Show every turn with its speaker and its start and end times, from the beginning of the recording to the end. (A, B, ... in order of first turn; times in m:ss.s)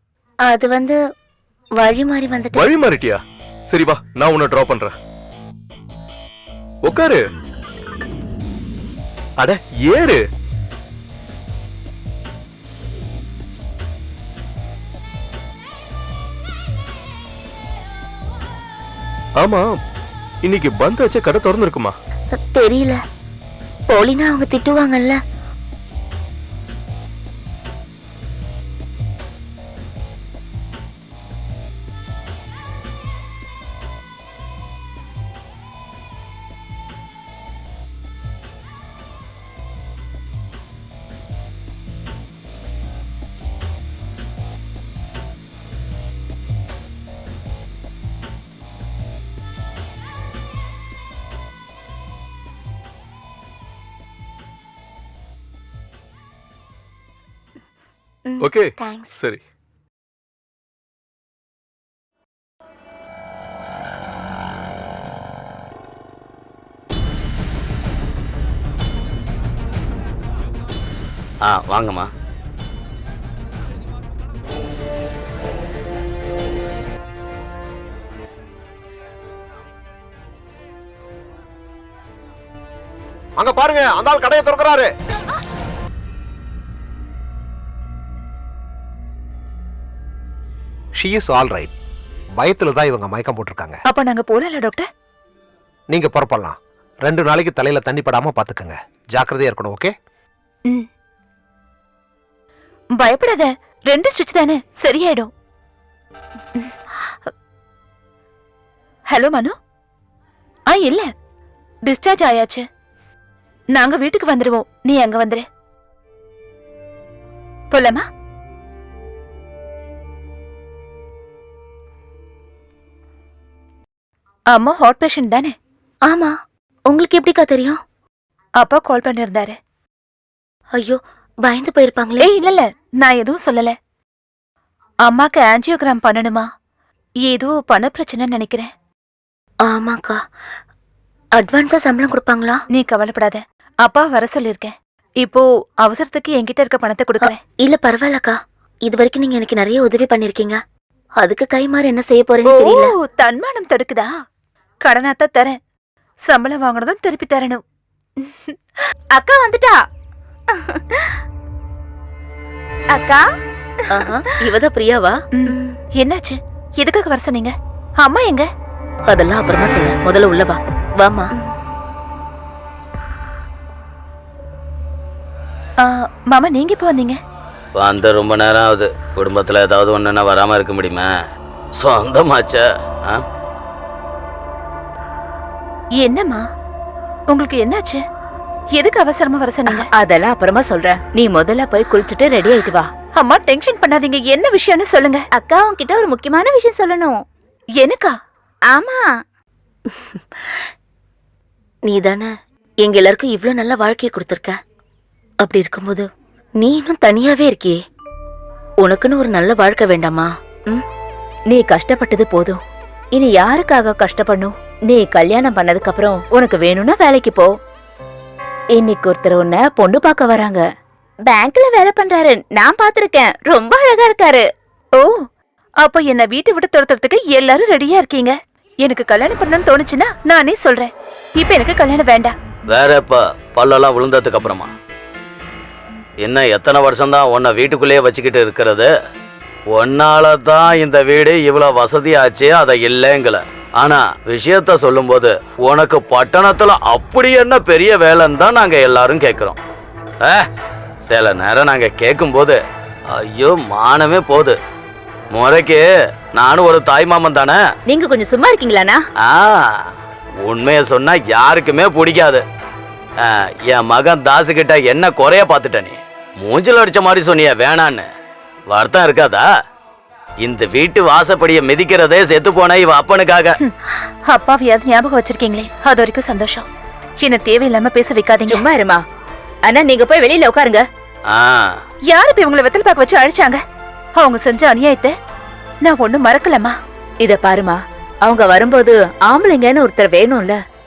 0:00.4-0:01.0 A
0:01.8-0:02.7 A
0:02.5-0:05.0 B
0:06.8-0:07.2 B
0:09.4-0:10.2 B
0:19.4-0:19.8 B
0:20.4-0:22.0 B
0:22.3-0:23.0 A
0:23.9-0:25.2 A
0:58.3-0:59.1 A
0:58.4-0:59.4 B
1:11.4-1:12.1 C
1:23.4-1:24.9 D
1:31.0-1:31.7 D
1:32.4-1:33.8 D
1:33.9-1:34.9 E
1:35.9-1:39.9 D
1:43.0-1:45.3 E
1:46.6-1:46.9 E
1:49.1-1:49.6 E
1:50.7-1:51.1 E
1:51.9-1:52.6 E
1:53.7-1:55.4 E
1:57.7-1:58.0 E
2:04.5-2:05.5 E
2:06.1-2:06.3 A
2:06.9-2:07.8 A
2:08.6-2:09.6 E
2:10.8-2:12.3 A
2:12.2-2:13.8 E
2:15.1-2:16.5 E
2:17.2-2:18.7 E
2:19.6-2:20.2 A
2:21.4-2:22.6 A
2:22.8-2:27.4 E
2:27.2-2:30.6 A
2:31.2-2:32.9 A
2:32.5-2:34.1 E
2:34.8-2:35.6 E
2:36.3-2:37.6 E
2:39.1-2:39.8 F
2:40.5-2:41.1 F
2:42.9-2:43.3 F
2:43.9-2:45.8 A
2:45.3-2:48.5 E
2:49.1-2:51.3 A
2:55.8-2:57.2 E
2:57.8-3:01.2 C
3:01.8-3:03.2 C
3:06.0-3:06.4 E
3:07.3-3:08.0 E
3:08.8-3:09.9 E
3:09.7-3:12.9 F
3:13.2-3:15.2 E
3:15.3-3:17.2 F
3:17.8-3:18.1 E
3:18.7-3:19.1 F
3:19.9-3:20.4 A
3:21.8-3:22.3 A
3:22.8-3:24.6 A
3:25.4-3:27.8 A
3:28.8-3:30.8 A
3:31.5-3:32.6 F
3:33.1-3:37.6 F
3:38.8-3:40.6 F
3:41.3-3:44.5 F
3:45.8-3:52.4 E
3:52.7-3:54.7 C
3:56.2-3:58.9 C
3:59.7-4:09.6 C
4:11.1-4:12.6 C
4:13.1-4:14.6 C
4:15.3-4:17.6 C
4:17.9-4:19.0 F
4:19.2-4:19.8 C
4:20.4-4:22.4 C
4:23.2-4:28.1 C
4:28.7-4:29.4 C
4:30.4-4:33.6 C
4:33.6-4:36.7 E
4:37.2-4:38.7 E
4:38.5-4:39.0 F
4:39.6-4:40.9 F
4:41.3-4:41.8 C
4:42.1-4:43.6 E
4:44.2-4:45.1 E
4:45.8-4:46.8 E
4:47.2-4:50.6 F